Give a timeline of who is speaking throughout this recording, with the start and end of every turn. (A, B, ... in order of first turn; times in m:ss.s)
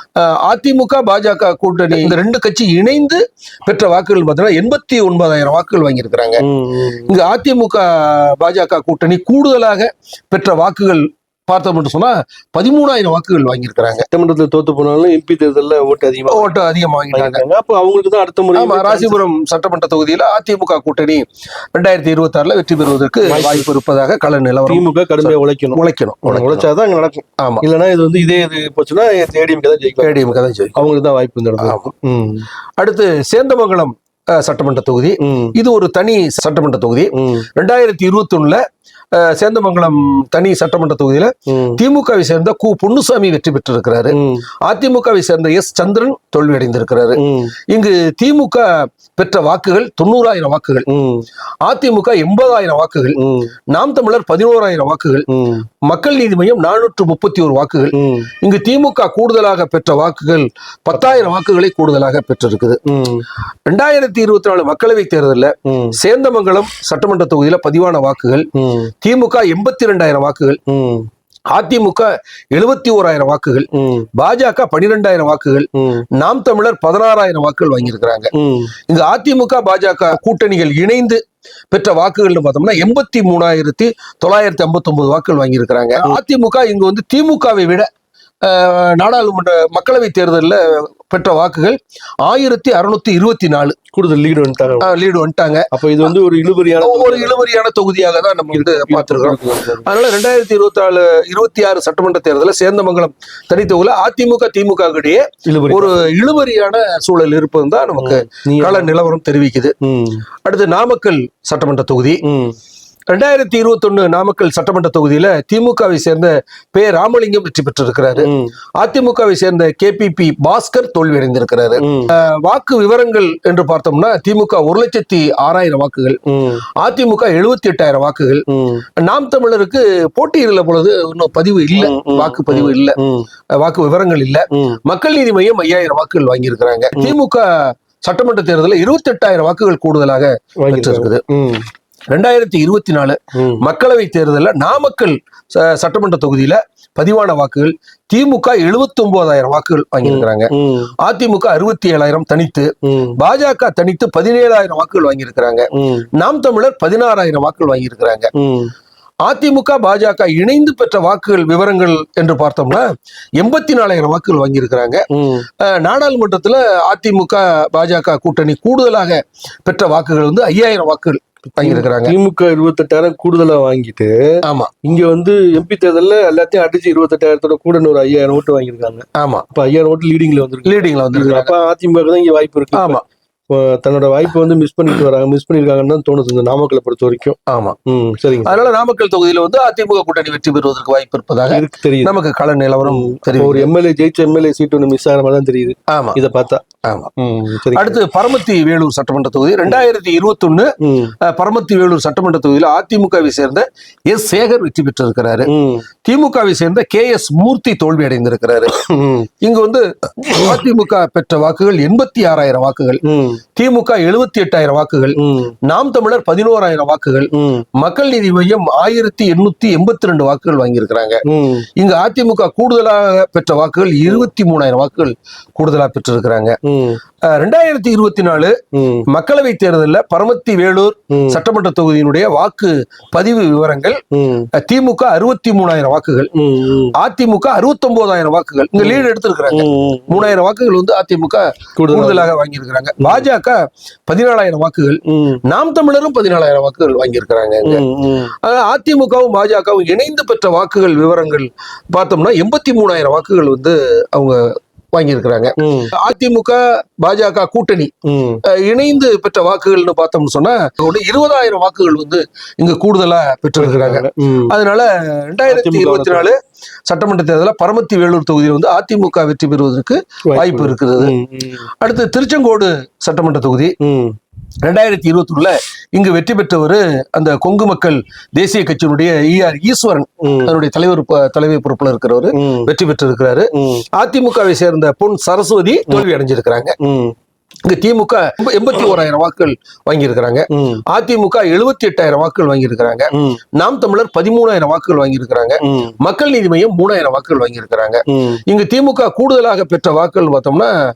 0:00.2-0:06.4 A
0:06.4-0:07.1 B
0:07.1-0:14.1 A
0:14.1-0:16.6 B
0:16.3-0:17.4 A
0:17.1-0:19.2 B
0:18.6-0:26.7 A
0:23.2-0:23.7 B
0:24.7-0:32.5 B
0:27.4-0:27.6 A
0:30.0-0:30.8 A
0:31.6-0:31.9 A
0:32.8-0:38.6 A
0:35.2-0:35.6 B
0:37.2-0:37.5 B
0:39.1-0:50.9 A
0:41.5-0:41.8 B
0:44.1-0:44.5 B
0:47.2-0:47.6 B
0:50.9-0:51.3 B
0:51.6-0:53.2 A
0:53.2-0:53.5 B
0:53.7-0:55.3 A
0:55.3-0:55.6 B
0:55.8-1:02.8 A
0:57.9-0:58.3 B
1:01.0-1:01.2 B
1:02.9-1:03.2 B
1:03.7-1:08.5 A
1:05.7-1:06.0 B
1:08.6-1:08.9 B
1:09.0-1:10.6 A
1:10.7-1:11.1 B
1:11.5-1:18.3 A
1:13.7-1:14.1 B
1:15.8-1:16.0 B
1:18.3-1:18.7 B
1:18.9-1:27.9 A
1:28.4-1:33.8 A
1:33.9-1:34.9 B
1:34.8-1:36.1 A
1:35.7-1:37.4 B
1:36.8-1:49.7 A
1:38.5-1:39.8 B
1:45.5-1:46.0 B
1:48.0-1:48.9 B
1:49.8-1:50.2 B
1:50.4-1:52.2 A
1:52.2-1:52.6 B
1:53.1-2:06.2 A
1:58.2-1:58.5 B
2:01.8-2:02.1 B
2:06.3-2:06.6 B
2:06.8-2:08.4 A
2:08.5-2:08.8 B
2:09.0-2:13.0 A
2:11.8-2:13.3 B
2:13.6-2:21.2 A
2:14.5-2:14.8 B
2:20.6-2:21.6 B
2:22.1-2:30.5 A
2:23.4-2:23.6 B
2:30.0-2:30.9 B
2:31.0-2:38.3 A
2:32.8-2:33.2 B
2:35.8-2:36.1 B
2:38.4-2:38.7 B
2:39.2-2:45.0 A
2:45.1-2:45.5 B
2:45.6-2:52.2 A
2:51.5-2:54.2 B
2:54.4-2:54.7 A
2:54.8-3:03.0 B
2:59.2-2:59.5 A
3:00.6-3:01.5 A
3:02.7-3:03.0 A
3:03.5-3:08.7 B
3:07.5-3:07.8 A
3:08.4-3:13.7 A
3:11.5-3:12.2 B
3:12.8-3:16.6 B
3:15.9-3:16.2 A
3:16.8-3:17.1 A
3:17.2-3:18.0 B
3:17.7-3:20.7 A
3:20.8-3:21.1 B
3:21.2-3:25.5 A
3:25.5-3:25.9 B
3:26.0-3:28.7 A
3:28.8-3:29.3 B
3:29.4-3:33.0 A
3:33.1-3:33.4 B
3:33.6-3:41.2 A
3:35.2-3:35.5 B
3:37.3-3:37.6 B
3:41.3-3:41.7 B
3:41.8-3:46.6 A
3:46.7-3:47.0 B
3:47.2-3:48.6 A
3:48.7-3:49.1 B
3:49.1-3:54.0 A
3:51.1-3:51.4 B
3:54.1-3:54.5 B
3:54.6-3:56.3 A
3:56.4-3:56.9 B
3:57.0-4:07.8 A
3:58.8-4:00.3 B
4:01.8-4:02.3 B
4:03.0-4:03.2 B
4:05.1-4:05.4 B
4:07.6-4:08.3 B
4:08.4-4:17.9 A
4:15.6-4:15.9 B
4:18.1-4:18.4 B
4:18.5-4:26.4 A
4:23.6-4:24.5 B
4:25.5-4:26.3 B
4:26.9-4:31.1 A
4:30.3-4:31.7 B
4:31.8-4:33.8 A
4:33.8-4:34.2 B
4:34.6-4:46.8 A
4:40.2-4:40.5 B
4:42.4-4:42.7 B
4:43.6-4:43.9 B
4:46.8-4:47.2 B
4:47.6-5:00.7 A
4:50.5-4:50.8 B
4:53.1-4:53.4 B
4:55.6-4:56.0 B
4:58.1-4:58.4 B